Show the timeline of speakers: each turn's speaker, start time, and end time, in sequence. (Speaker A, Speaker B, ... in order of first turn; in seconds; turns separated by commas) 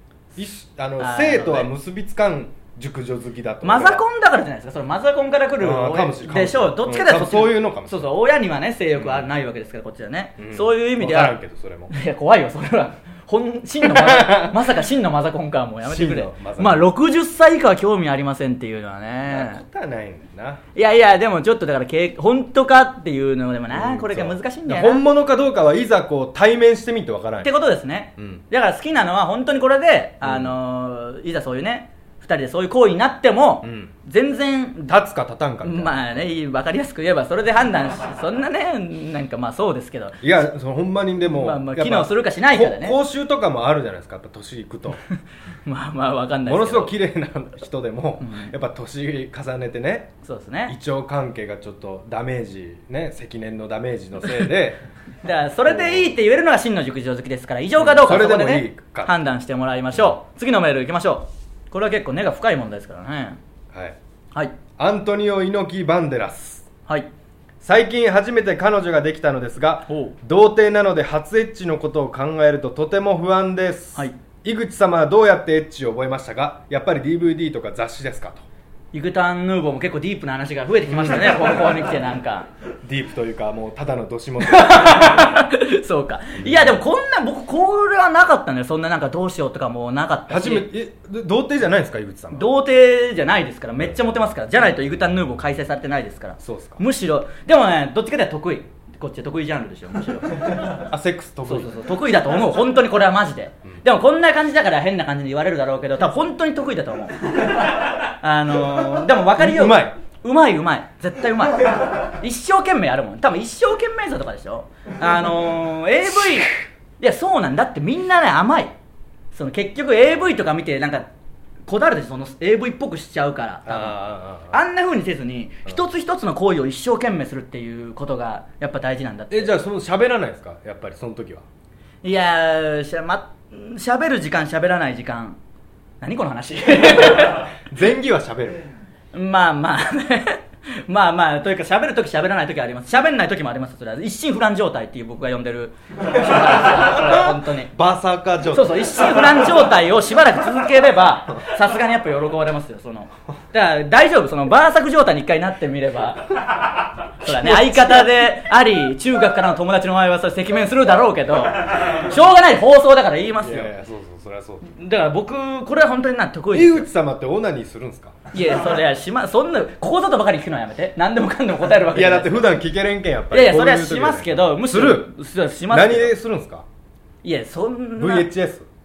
Speaker A: 0.3-4.0, Speaker B: 1.0-1.7, Speaker B: 3.6-11.3, Speaker A: 5.6-8.1, Speaker A: 9.0-9.3, Speaker A: 10.4-11.9, Speaker B: 11.9-19.6, Speaker A: 13.8-14.6, Speaker A: 15.8-16.9, Speaker A: 19.3-20.6, Speaker B: 20.7-25.0, Speaker A: 23.7-27.5, Speaker B: 27.4-34.9, Speaker A: 28.2-28.4, Speaker A: 30.2-30.5, Speaker A: 33.6-33.9, Speaker A: 34.8-36.2, Speaker B: 35.6-40.2, Speaker A: 40.2-45.0, Speaker B: 41.3-43.0, Speaker B: 45.6-46.9, Speaker A: 46.4-50.1, Speaker B: 48.2-48.5, Speaker B: 50.2-50.7, Speaker A: 50.7-54.8, Speaker B: 55.2-63.4, Speaker A: 55.7-56.1, Speaker A: 57.8-59.1, Speaker A: 63.7-64.0, Speaker A: 64.8-66.7, Speaker A: 67.6-78.4, Speaker B: 69.9-70.1, Speaker B: 78.9-82.5, Speaker A: 80.9-81.4, Speaker A: 82.8-85.5, Speaker B: 84.4-90.7, Speaker A: 90.3-92.5, Speaker B: 92.3-100.7, Speaker A: 96.4-96.8, Speaker A: 100.6-101.8, Speaker B: 101.5-118.7, Speaker A: 109.4-109.9, Speaker B: 119.3-121.1, Speaker B: 121.7-124.0, Speaker A: 123.7-124.6, Speaker B: 124.5-129.5, Speaker A: 129.3-131.4, Speaker B: 132.0-135.4, Speaker B: 136.0-137.5, Speaker A: 137.1-138.6, Speaker B: 139.1-147.7, Speaker A: 146.9-149.4, Speaker B: 148.5-156.3, Speaker B: 157.2-163.7, Speaker A: 157.2-158.1, Speaker A: 163.4-164.7, Speaker B: 164.7-166.9, Speaker A: 166.5-168.2, Speaker B: 168.3-172.5, Speaker A: 171.9-175.1, Speaker B: 173.3-176.1, Speaker A: 175.7-176.6, Speaker B: 177.2-178.3, Speaker A: 178.0-178.7